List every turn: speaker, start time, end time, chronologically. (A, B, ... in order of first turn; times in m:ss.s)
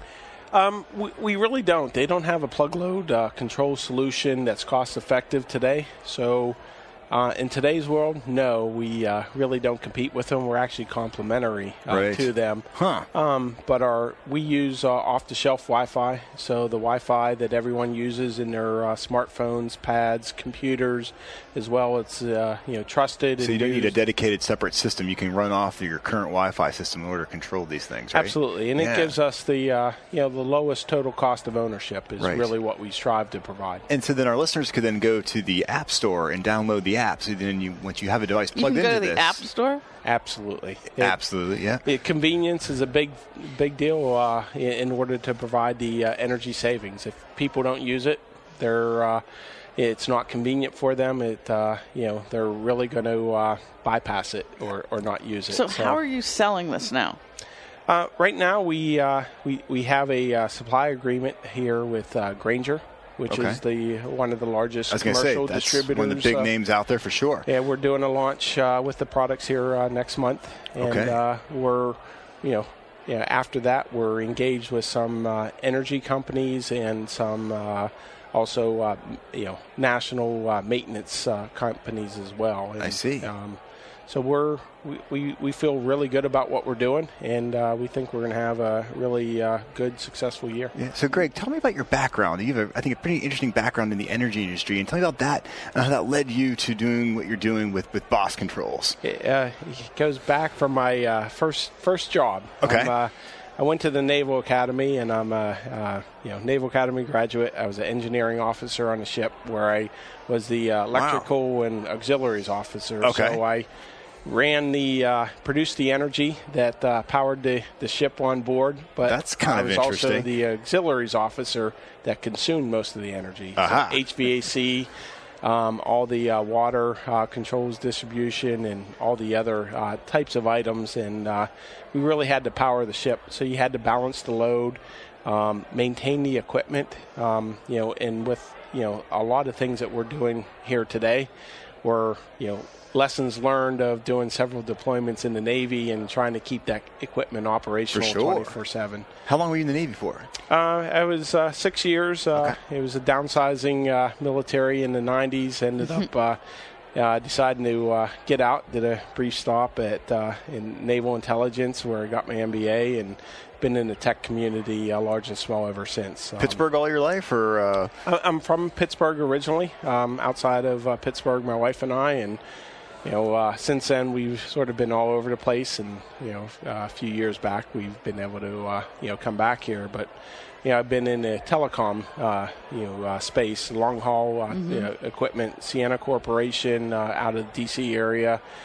0:00.5-0:06.6 A
0:07.1-0:24.0 A
0:11.9-0:13.1 B
0:23.4-0:29.1 B
0:28.1-0:33.8 A
0:32.2-0:32.5 B
0:33.9-0:39.5 B
0:38.6-0:39.8 C
0:40.0-0:41.2 A
0:41.0-0:41.8 B
0:41.8-0:49.2 A
0:49.8-0:56.0 A
0:55.5-0:57.2 C
0:57.9-1:06.5 A
1:03.3-1:03.6 B
1:04.9-1:07.5 B
1:07.4-1:30.7 A
1:10.8-1:11.2 B
1:22.8-1:23.3 B
1:30.8-1:39.0 B
1:39.0-1:53.6 A
1:42.6-1:42.9 B
1:50.9-1:51.3 B
1:53.0-1:53.4 B
1:54.2-2:04.9 A
1:59.0-2:00.3 B
2:03.6-2:04.0 B
2:05.4-2:21.3 A
2:21.8-2:29.1 A
2:27.9-2:28.5 B
2:29.2-2:30.3 B
2:30.5-2:36.4 A
2:36.9-2:46.6 A
2:46.4-2:47.9 B
2:48.0-2:52.4 A
2:53.0-3:00.1 A
3:00.6-3:08.4 A
3:04.5-3:04.9 C